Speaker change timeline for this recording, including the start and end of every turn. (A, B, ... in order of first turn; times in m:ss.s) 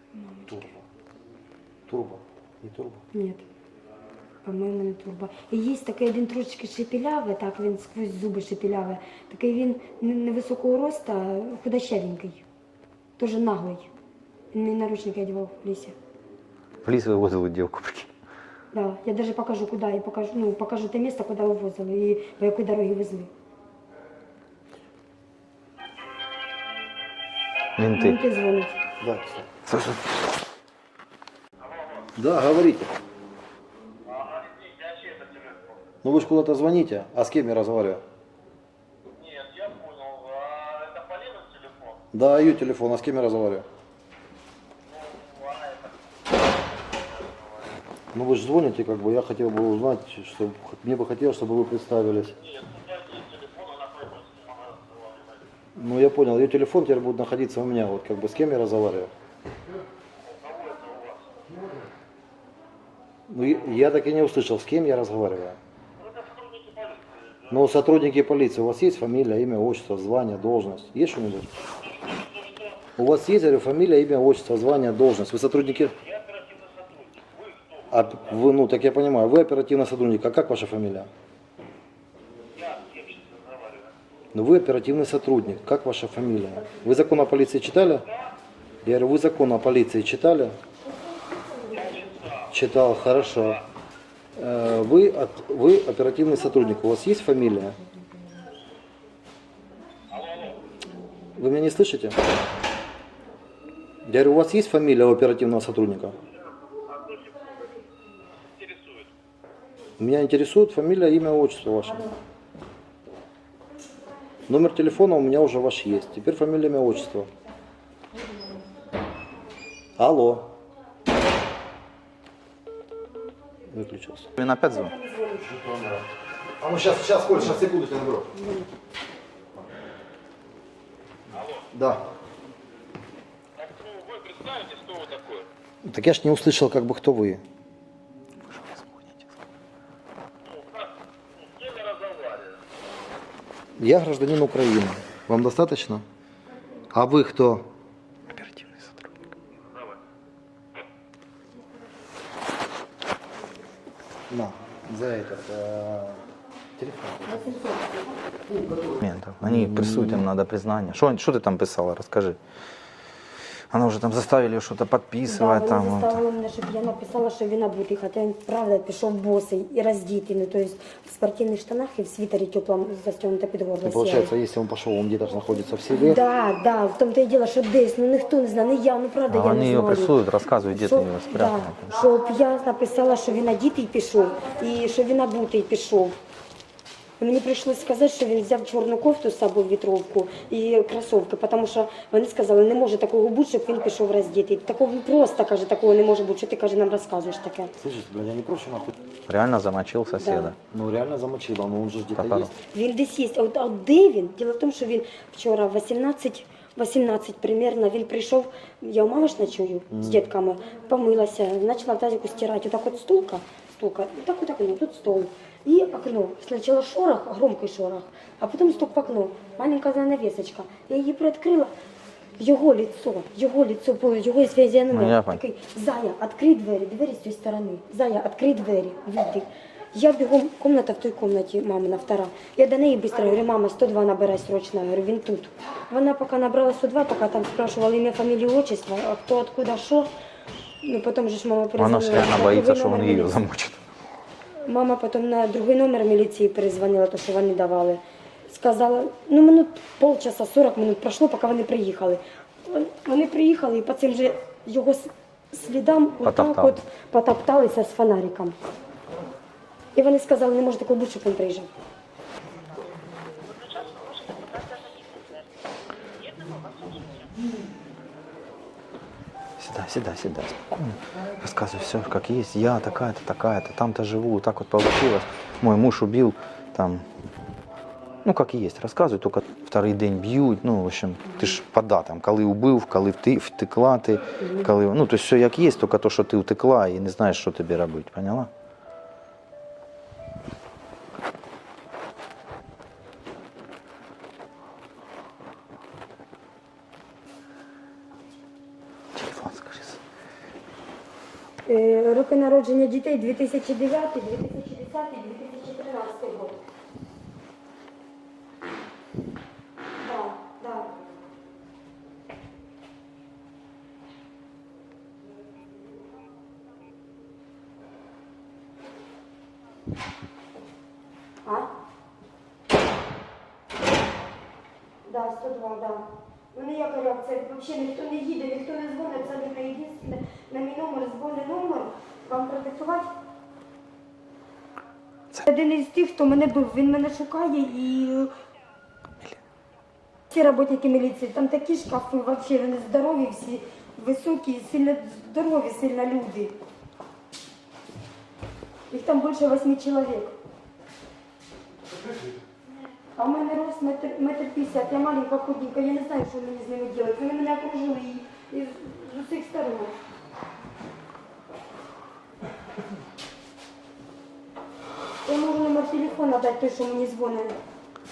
0:00.1-0:00.7 A
0:00.5-0:00.8 B
0:01.9-0:03.0 B
0:03.1-0:03.4 A
0:04.4-0:12.4 A
0:13.2-0:13.9 A
0:14.5-0:16.0 A
0:16.8-0:18.1 C
0:18.7-0:23.3 A
0:27.8-0:28.2 C
0:27.9-0:28.8 A
0:29.0-0:29.5 B
0:29.6-0:30.0 C
0:31.6-0:32.1 D
0:32.2-0:32.9 B
0:34.0-0:35.8 D
0:36.0-0:38.0 B
0:39.1-0:42.0 D
0:42.1-0:43.6 B
0:44.9-0:47.7 D
0:48.1-0:52.4 B
0:52.4-0:55.4 D
0:55.8-0:59.1 B
1:00.2-1:01.3 D
1:03.3-1:05.6 B
1:06.0-1:07.4 D
1:07.5-1:11.5 B
1:11.6-1:12.8 D
1:13.0-1:16.0 B
1:15.9-1:17.9 D
1:17.9-1:21.1 B
1:22.6-1:23.9 D
1:24.3-1:28.1 B
1:28.8-1:30.6 B
1:31.7-1:32.5 D
1:32.5-1:33.6 B
1:34.4-1:37.8 B
1:40.1-1:40.6 D
1:41.4-1:42.2 B
1:44.0-1:46.2 B
1:46.8-1:47.7 D
1:48.6-1:49.1 D
1:50.0-1:52.1 B
1:54.5-1:57.3 B
2:00.0-2:00.5 B
2:03.7-2:04.3 B
2:04.4-2:04.9 C
2:04.6-2:05.5 A
2:05.4-2:06.0 B
2:06.6-2:08.3 B
2:08.3-2:08.7 A
2:11.3-2:11.7 D
2:11.7-2:12.0 B
2:13.6-2:15.5 D
2:15.8-2:17.4 B
2:18.5-2:19.2 C
2:20.4-2:22.6 D
2:23.8-2:26.0 B
2:26.9-2:27.6 B
2:28.3-2:29.1 C
2:29.6-2:29.9 D
2:34.3-2:36.2 B
2:36.8-2:37.6 B
2:37.2-2:38.2 A
2:38.5-2:40.2 B
2:39.0-2:42.4 C
2:43.7-2:46.2 C
2:45.2-2:54.3 A
2:53.8-2:56.2 B
2:56.0-3:00.2 A
2:59.3-3:01.9 C
3:00.7-3:06.2 A
3:07.2-3:17.7 A
3:17.8-3:18.9 B
3:19.3-3:20.6 C
3:20.2-3:20.5 A
3:20.7-3:22.6 B
3:22.1-3:22.5 C
3:22.6-3:41.7 A
3:29.9-3:30.2 B
3:42.4-4:00.1 A
3:44.9-3:45.4 C
4:00.8-4:03.4 A
4:01.8-4:03.8 C
4:04.6-4:18.6 A
4:16.2-4:16.8 C
4:19.9-4:21.7 A
4:23.4-4:27.5 D
4:29.6-4:37.0 C
4:38.2-4:48.5 C
4:41.2-4:41.5 A
4:59.1-5:00.0 C
5:01.6-5:06.6 A
5:10.0-5:10.9 A
5:21.4-5:21.7 A
5:25.0-5:33.1 A
5:35.4-5:38.3 A
5:40.3-5:46.6 A
5:48.9-5:50.3 A
5:53.2-6:00.0 A
6:05.2-6:07.6 A